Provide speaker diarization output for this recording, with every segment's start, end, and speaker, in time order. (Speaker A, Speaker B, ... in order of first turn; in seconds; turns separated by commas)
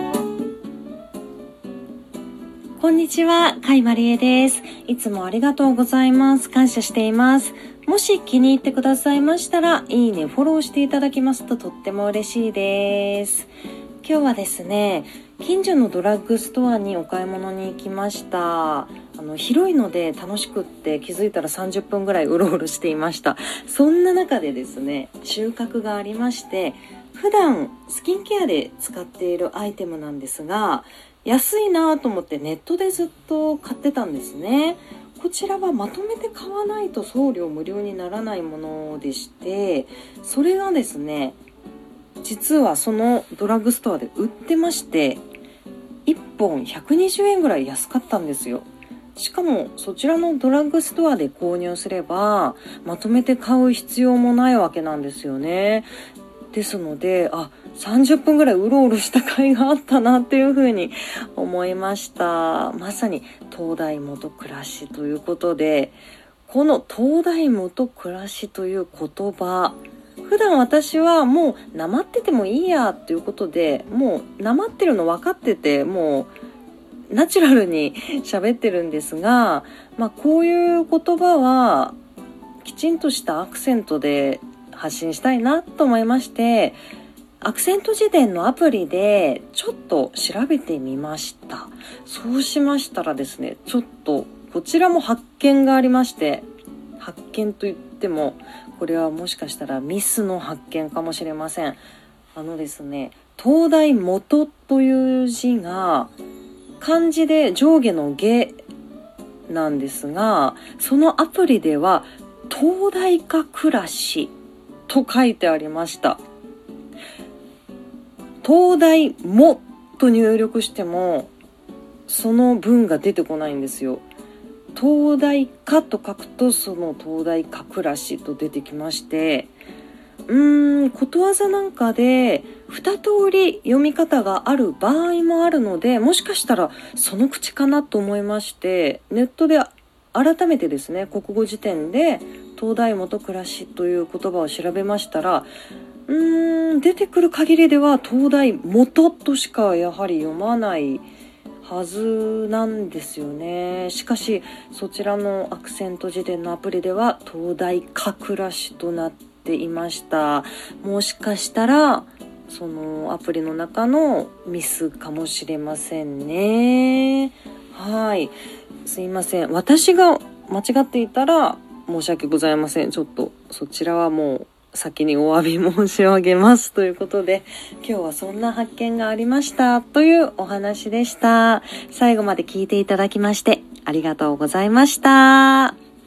Speaker A: 2.8-13.5, Speaker A: 14.0-41.4, Speaker A: 42.2-45.2, Speaker A: 46.1-55.9, Speaker A: 56.5-76.3, Speaker A: 77.1-82.0, Speaker A: 82.6-86.8, Speaker A: 87.4-96.5, Speaker A: 97.0-101.8, Speaker A: 102.3-106.1, Speaker A: 106.8-108.6, Speaker A: 109.5-114.3, Speaker A: 114.9-116.2, Speaker A: 118.4-121.3, Speaker A: 122.1-124.0, Speaker A: 124.8-129.5, Speaker A: 130.3-145.5, Speaker A: 146.1-151.1, Speaker A: 151.6-185.8